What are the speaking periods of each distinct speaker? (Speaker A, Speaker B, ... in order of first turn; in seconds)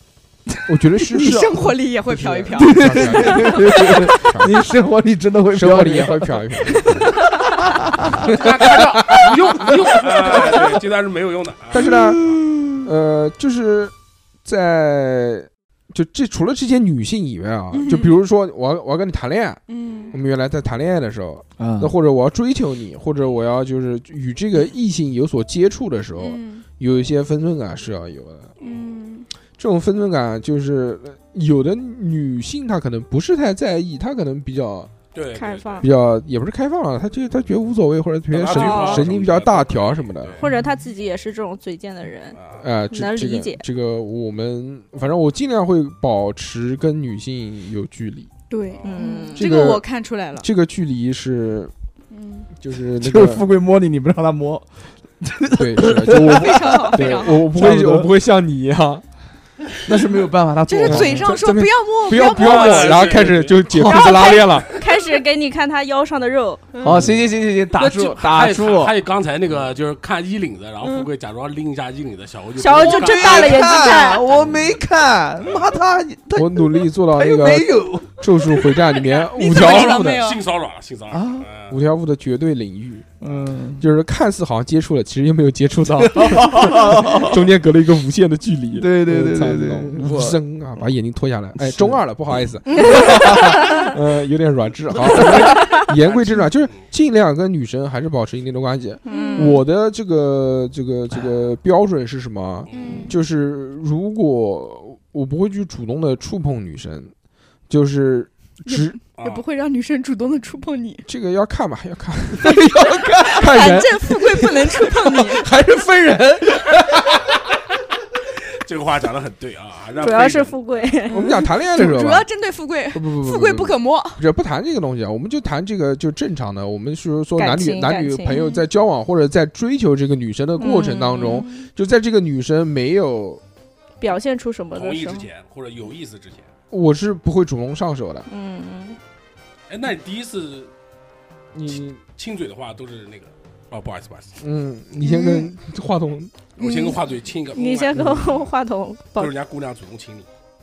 Speaker A: 0.6-4.6, 5.5-7.2, 8.2-9.8, 11.7-12.2, 12.8-13.9, 14.4-28.5, 29.6-34.9, 35.8-40.4, 42.6-48.3, 49.4-49.9, 50.4-51.7, 52.6-53.4, 55.5-59.0, 60.8-64.7, 66.9-67.2, 76.3-80.3, 81.7-83.0, 83.8-107.1, 107.7-109.0, 111.0-112.7, 113.3-117.1, 121.1-122.3, 122.9-133.4, 136.7-138.3, 141.5-142.0, 144.4-146.4, 147.9-148.3
Speaker B: 1.1-4.0, 7.0-7.5, 17.7-18.1, 19.7-20.1, 26.1-26.6, 28.6-29.3, 48.5-50.5, 52.1-52.5, 56.2-57.4, 60.6-63.3, 63.9-64.2, 70.8-71.1, 78.9-80.4, 99.1-99.5, 102.7-103.1, 108.7-111.0, 113.3-115.4, 121.1-124.2, 128.3-128.6, 145.1-145.5, 146.6-147.0
Speaker C: 2.5-7.0, 7.5-8.3, 9.6-10.8, 11.8-12.7, 21.6-21.9, 53.0-58.1, 59.8-61.3, 66.8-68.9, 72.8-78.8, 81.1-81.5, 83.2-83.8, 86.0-87.4, 88.8-90.4, 91.6-92.0, 112.4-113.6, 114.8-115.2
Speaker D: 8.3-12.0, 28.6-28.9, 35.1-35.9, 38.3-40.4, 42.3-42.6, 48.7-49.0, 62.1-63.8, 67.7-74.8, 75.4-75.8, 79.5-81.8, 96.0-96.9, 102.7-103.1, 109.2-109.4, 118.5-120.9, 134.7-136.5, 139.7-140.7, 141.7-144.4, 146.6-148.4, 149.2-150.2
Speaker E: 35.3-35.9, 38.5-39.0, 40.4-42.4, 42.9-43.6, 48.8-49.4, 63.7-66.6, 72.6-74.3, 99.0-99.6, 120.0-121.3, 127.4-128.4, 130.6-131.6, 134.0-135.3, 138.3-139.0, 147.5-149.3